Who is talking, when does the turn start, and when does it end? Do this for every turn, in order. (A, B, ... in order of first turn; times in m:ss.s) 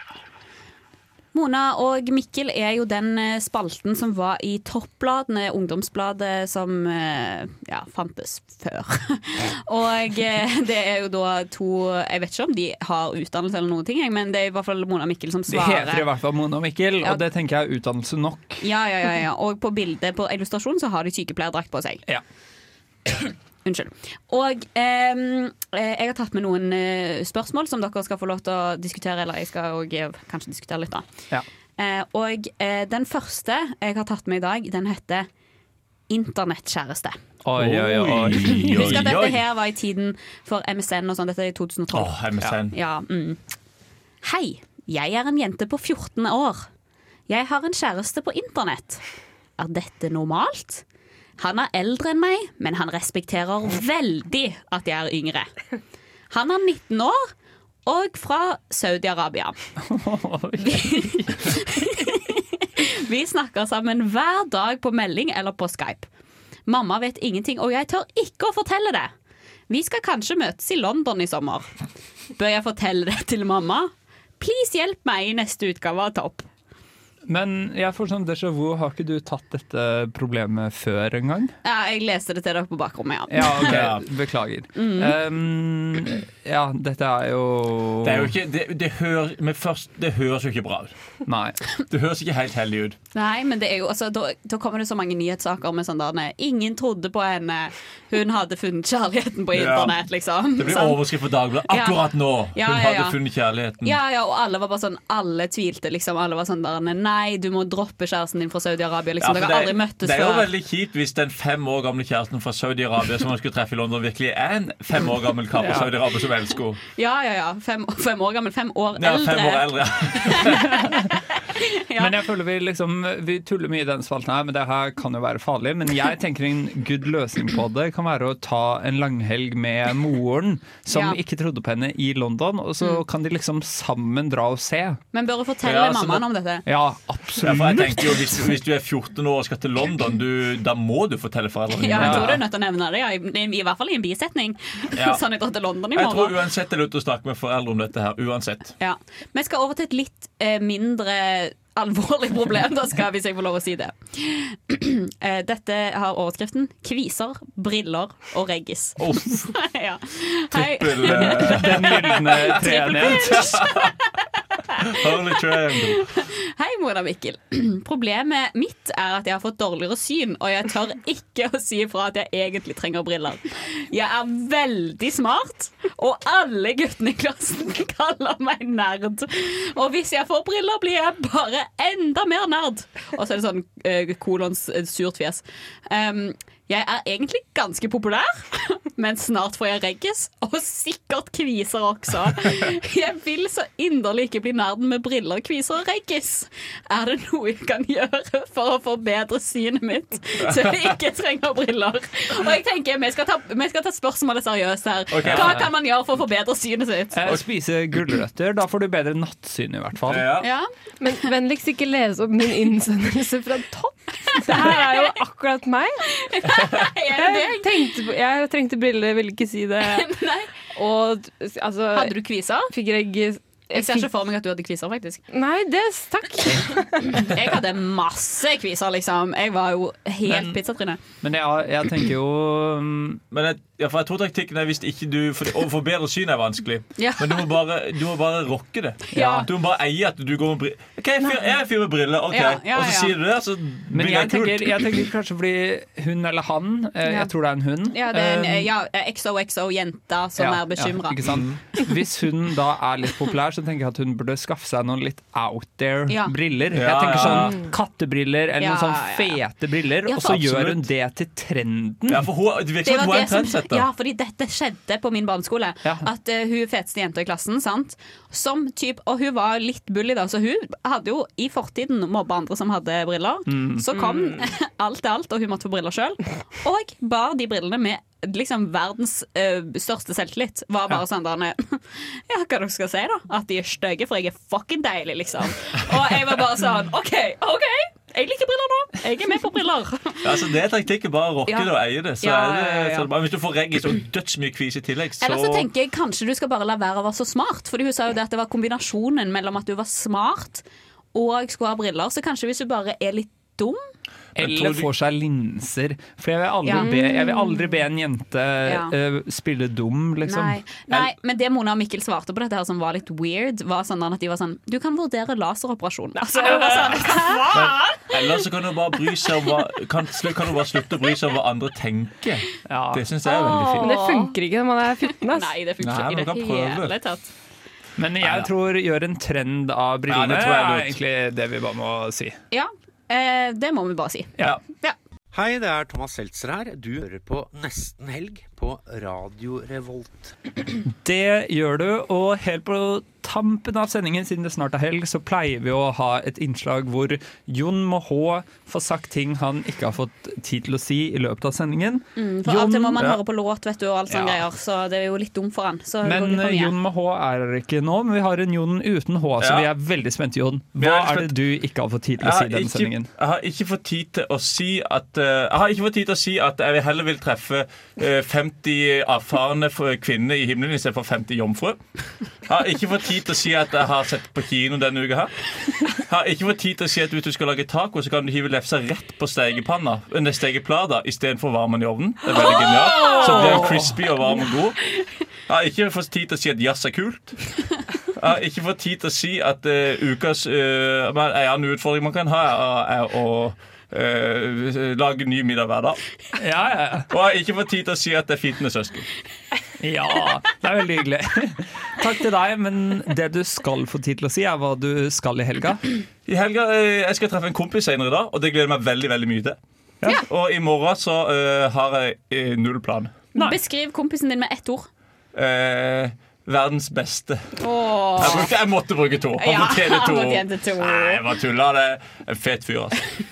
0:01.3-0:16.1 A
0:15.5-0:18.6 B
0:18.6-0:22.0 A
0:23.1-0:31.1 A
0:31.8-0:35.3 A
0:36.1-0:37.2 A
0:37.4-0:39.1 B
0:37.6-0:39.4 C
0:38.5-0:42.2 A
0:41.9-0:42.7 C
0:42.7-0:43.4 A
0:44.2-0:46.7 A
0:47.3-0:49.0 A
0:49.6-0:50.8 A
0:51.4-0:55.5 A
0:56.3-0:57.2 A
0:57.9-0:59.6 A
0:59.8-1:02.1 B
1:00.6-1:06.1 A
1:06.7-1:09.1 A
1:09.7-1:11.7 A
1:12.4-1:16.5 A
1:17.3-1:21.5 B
1:21.6-1:23.9 A
1:23.3-1:28.3 B
1:23.6-1:24.0 C
1:24.8-1:25.2 A
1:28.0-1:30.9 C
1:31.3-1:31.6 B
1:31.9-1:33.0 C
1:33.2-1:41.0 A
1:39.5-1:40.0 C
1:40.6-1:44.0 C
1:41.7-1:42.0 A
1:42.5-1:43.2 A
1:43.8-1:50.5 A
1:49.2-1:56.8 C
1:55.6-1:55.9 B
1:57.0-1:59.7 A
1:59.0-2:00.7 C
2:00.2-2:00.7 A
2:01.5-2:02.1 A
2:02.0-2:15.0 B
2:10.9-2:11.2 A
2:15.1-2:16.7 A
2:15.6-2:16.3 C
2:16.7-2:18.2 B
2:17.4-2:22.4 C
2:21.8-2:26.3 A
2:21.9-2:22.4 B
2:25.0-2:25.2 C
2:26.0-2:28.7 C
2:28.8-2:43.9 A
2:39.0-2:39.5 C
2:40.5-2:43.9 C
2:41.0-2:43.6 B
2:44.6-2:45.1 A
2:44.8-2:46.0 C
2:45.8-3:27.3 A
3:20.5-3:20.8 C
3:25.1-3:25.7 C
3:25.3-3:25.7 B
3:27.2-3:30.3 B
3:30.1-3:30.5 C
3:30.4-3:30.7 A
3:31.0-3:36.1 D
3:34.4-3:35.1 A
3:36.2-3:37.7 A
3:37.1-3:40.1 D
3:39.8-3:40.5 A
3:40.7-3:42.2 D
3:41.9-3:42.7 A
3:42.7-3:44.1 D
3:43.7-3:45.2 A
3:45.3-3:47.3 D
3:46.5-3:51.0 A
3:50.3-3:50.6 B
3:51.2-3:53.2 B
3:53.3-4:04.8 C
3:57.0-3:57.5 A
3:59.1-3:59.5 A
3:59.1-3:59.5 B
4:02.3-4:03.2 A
4:03.9-4:08.7 B
4:07.9-4:11.2 A
4:10.4-4:22.3 B
4:11.3-4:11.6 C
4:16.7-4:17.6 C
4:18.6-4:19.4 A
4:20.2-4:20.9 C
4:22.1-4:23.9 C
4:22.8-4:50.3 A
4:33.5-4:34.1 B
4:50.2-4:55.7 C
4:51.5-4:53.1 A
4:55.2-5:03.8 A
5:04.4-5:04.9 C
5:04.4-5:11.1 B
5:06.6-5:07.7 A
5:08.6-5:09.0 A
5:10.3-5:18.2 A
5:16.3-5:17.3 B
5:17.5-5:23.9 C
5:22.7-5:23.0 B
5:23.2-5:24.4 A
5:23.8-5:25.5 D
5:25.1-5:27.3 A
5:25.8-5:26.9 C
5:28.0-5:32.4 B
5:28.2-5:28.5 C
5:30.1-5:31.0 C
5:32.5-5:35.0 A
5:35.3-5:40.4 E
5:40.9-5:53.0 B
5:52.2-5:56.8 A
5:54.1-5:54.4 B
5:56.0-6:03.1 B
5:59.4-5:59.7 C
6:00.8-6:01.3 C
6:02.2-6:11.8 C
6:12.5-6:15.3 C
6:15.9-6:24.8 C
6:22.4-6:23.7 A
6:23.2-6:24.0 B
6:25.5-6:27.3 C
6:28.2-6:36.0 C
6:36.4-6:37.1 B
6:37.1-6:39.1 C
6:39.8-6:45.8 B
6:46.3-6:49.6 C
6:50.2-6:53.1 C
6:53.4-6:54.9 A
6:55.3-6:57.5 C
6:57.6-6:58.5 A
6:58.2-7:03.0 C
6:59.4-7:01.2 A